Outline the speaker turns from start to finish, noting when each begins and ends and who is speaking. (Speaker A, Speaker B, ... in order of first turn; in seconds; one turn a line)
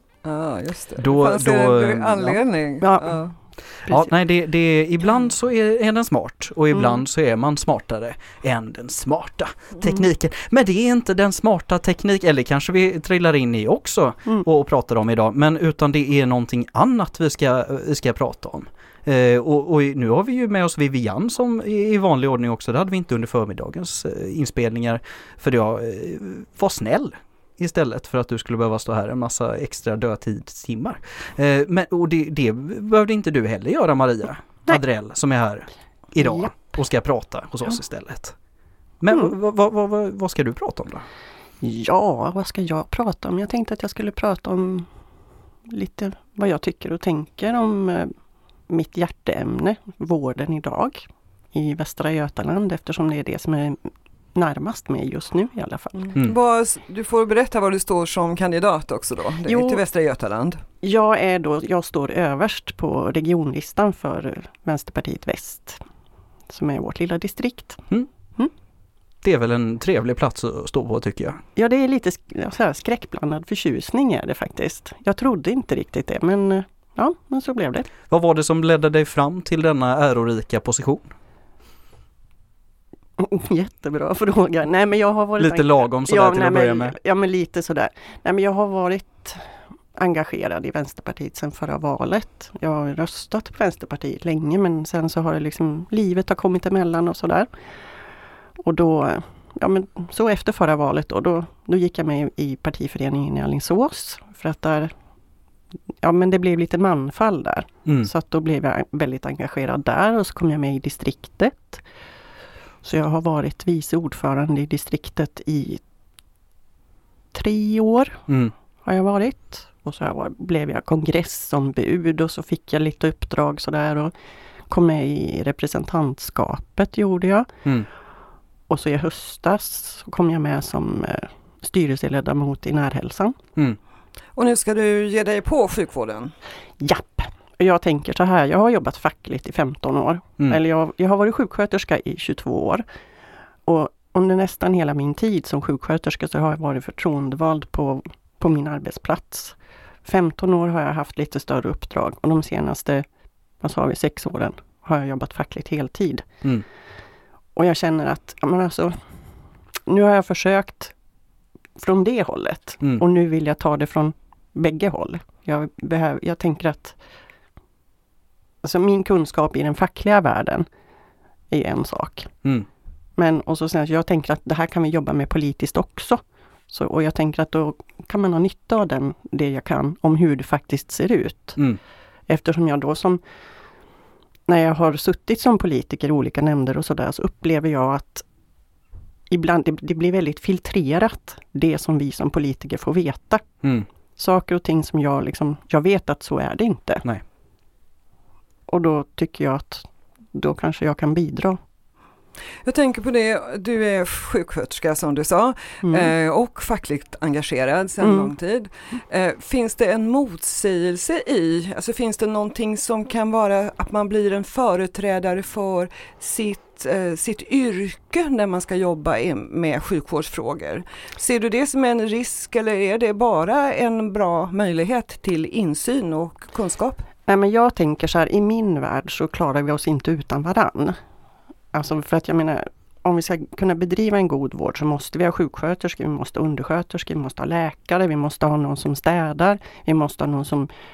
Speaker A: 0.2-3.3
Speaker B: 1.0-2.4
Speaker C: 2.8-3.3
Speaker B: 3.9-38.3
Speaker C: 6.7-7.0
Speaker C: 36.2-36.5
Speaker B: 39.0-41.0
Speaker C: 41.6-44.9
Speaker C: 45.7-48.1
Speaker C: 48.7-56.1
Speaker A: 56.1-60.6
Speaker C: 59.5-59.8
Speaker C: 60.8-65.8
Speaker C: 66.5-67.8
Speaker B: 69.2-71.4
Speaker C: 71.5-77.9
Speaker B: 78.1-81.1
Speaker C: 83.2-97.5
Speaker B: 85.4-87.0
Speaker C: 98.6-104.9
Speaker C: 106.0-111.8
Speaker C: 112.8-115.8
Speaker C: 117.3-118.3
Speaker B: 118.3-118.5
Speaker C: 118.8-124.1
Speaker C: 124.7-127.5
Speaker C: 128.7-133.4
Speaker A: 134.3-136.3
Speaker C: 136.8-142.8
Speaker C: 143.7-153.1
Speaker C: 153.6-156.2
Speaker C: 157.6-158.9
Speaker C: 159.9-160.9
Speaker C: 161.8-166.9
Speaker C: 168.6-170.7
Speaker C: 171.5-172.3
Speaker C: 173.2-181.6
Speaker C: 182.3-183.2
Speaker C: 184.5-188.2
Speaker C: 189.3-193.4
Speaker C: 194.2-197.0
Speaker C: 198.7-201.6
Speaker A: 202.6-227.0
Speaker C: 205.8-206.1
Speaker C: 208.0-208.3
Speaker C: 227.3-231.0
Speaker C: 231.7-240.7